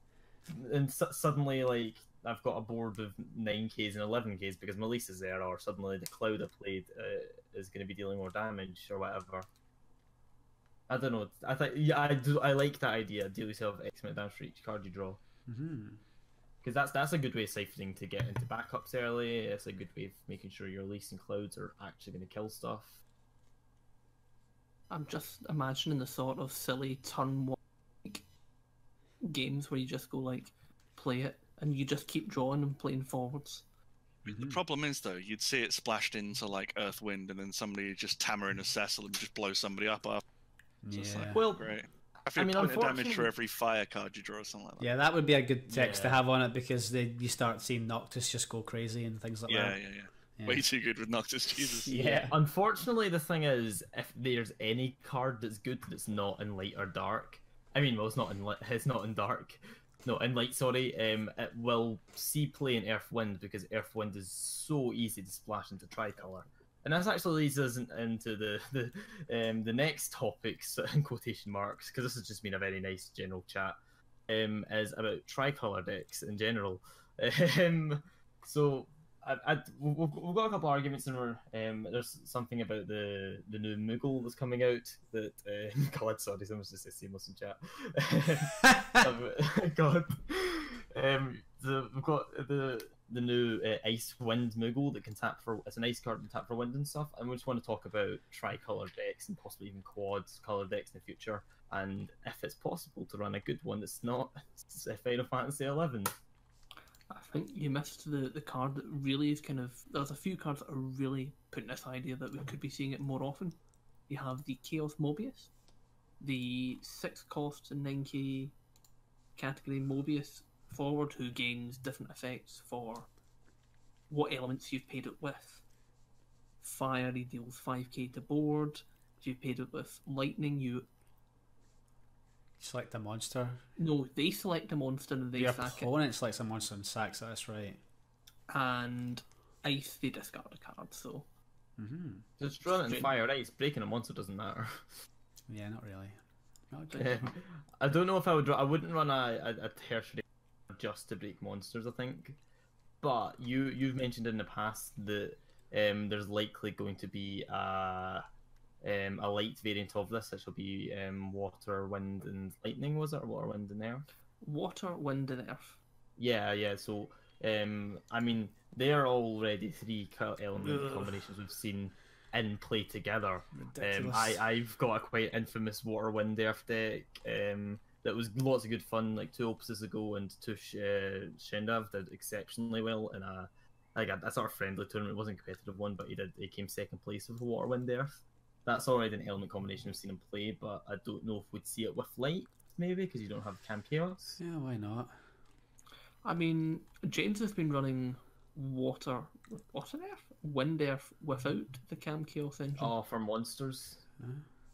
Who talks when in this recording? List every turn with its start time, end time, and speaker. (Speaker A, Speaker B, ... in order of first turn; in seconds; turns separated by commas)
Speaker A: 0.5-9.5, Speaker A: 10.9-15.2, Speaker B: 15.5-16.0, Speaker A: 16.6-23.0, Speaker C: 24.9-28.2, Speaker C: 29.2-33.6, Speaker D: 34.2-40.2, Speaker B: 34.2-34.6, Speaker B: 40.8-41.4, Speaker D: 40.9-45.0, Speaker A: 41.3-41.8, Speaker A: 42.3-43.3, Speaker B: 44.8-49.8, Speaker A: 45.7-46.2, Speaker D: 49.5-51.9, Speaker B: 50.4-50.6, Speaker B: 51.9-52.3, Speaker A: 51.9-73.8, Speaker A: 74.3-106.1, Speaker C: 107.1-115.5, Speaker C: 116.2-118.6, Speaker C: 119.4-123.1, Speaker C: 124.1-125.6, Speaker C: 126.6-130.9, Speaker B: 132.6-133.6, Speaker C: 133.8-135.9, Speaker B: 135.3-137.8, Speaker C: 138.5-141.3, Speaker B: 141.8-142.2, Speaker A: 142.4-144.9, Speaker C: 142.9-143.2, Speaker B: 145.5-146.2, Speaker B: 146.7-147.3, Speaker A: 147.0-152.4, Speaker A: 153.0-158.2, Speaker A: 158.8-164.1, Speaker C: 164.4-165.8, Speaker A: 166.2-194.4, Speaker B: 173.6-174.4, Speaker B: 194.4-195.2, Speaker C: 196.2-202.9, Speaker A: 202.8-204.0